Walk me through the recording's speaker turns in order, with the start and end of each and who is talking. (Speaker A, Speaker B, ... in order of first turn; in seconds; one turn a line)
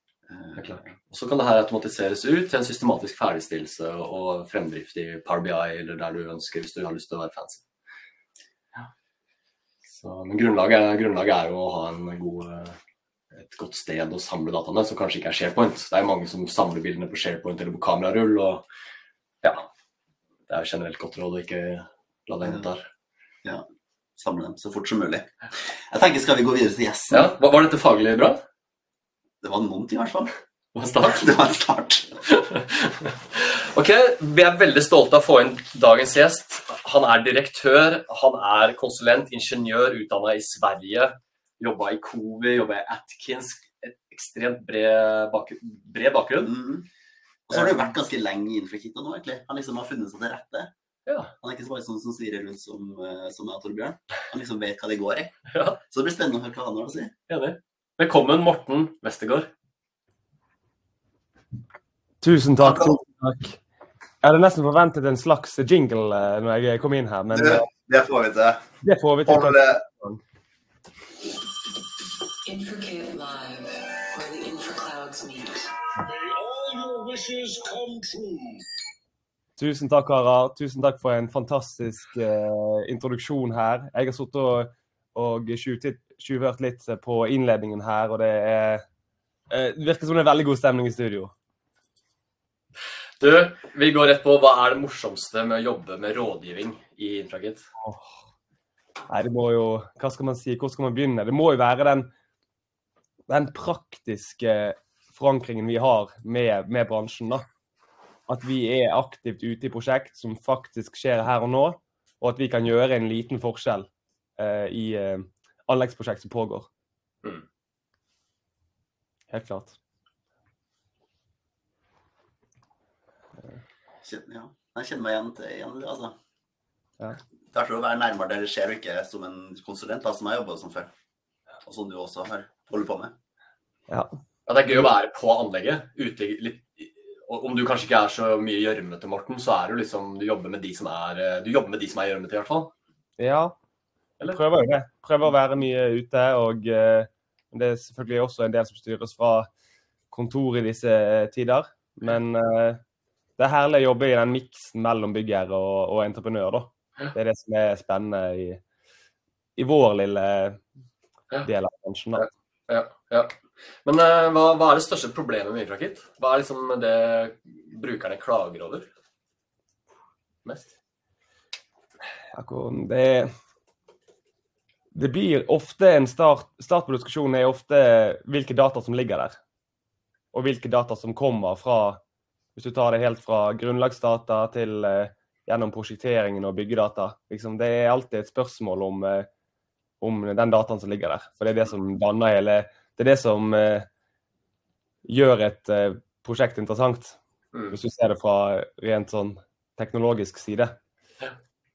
Speaker A: 0.3-0.8
Speaker B: 0.6-7.6
Speaker B: 9.9-12.8
Speaker B: 13.3-18.6
Speaker B: 19.4-19.7
Speaker B: 20.5-22.9
Speaker A: 24.2-27.3
Speaker B: 27.1-28.4
Speaker A: 29.4-30.3
Speaker B: 30.7-31.3
Speaker A: 31.0-32.2
Speaker B: 32.3-46.5
Speaker A: 46.4-46.9
Speaker A: 47.5-50.7
Speaker B: 47.5-47.9
Speaker B: 51.0-51.3
Speaker A: 51.4-55.3
Speaker B: 55.5-55.8
Speaker A: 55.9-57.1
Speaker B: 57.3-59.5
Speaker C: 62.2-63.6
Speaker A: 62.6-62.9
Speaker C: 64.2-67.7
Speaker A: 67.3-68.6
Speaker C: 68.8-70.2
Speaker A: 69.2-69.8
Speaker D: 72.5-75.7
Speaker E: 76.0-78.6
Speaker C: 79.6-88.8
Speaker C: 89.5-91.3
Speaker B: 93.2-97.7
Speaker C: 99.1-102.1
Speaker C: 103.3-107.5
Speaker C: 108.3-116.7
Speaker C: 119.3-119.8
Speaker A: 124.0-126.1
Speaker A: 127.5-130.9
Speaker A: 131.6-133.1
Speaker B: 134.5-142.7
Speaker C: 143.2-143.5
Speaker C: 144.3-149.5
Speaker C: 150.1-152.8
Speaker C: 153.4-158.6
Speaker C: 159.6-160.6
Speaker C: 161.4-162.2
Speaker B: 162.1-163.3
Speaker B: 163.8-168.9
Speaker B: 170.4-170.7
Speaker C: 172.3-173.3
Speaker C: 174.9-179.3
Speaker C: 180.3-182.0
Speaker C: 182.6-189.3
Speaker C: 190.0-193.9
Speaker C: 195.0-197.2
Speaker C: 197.7-200.7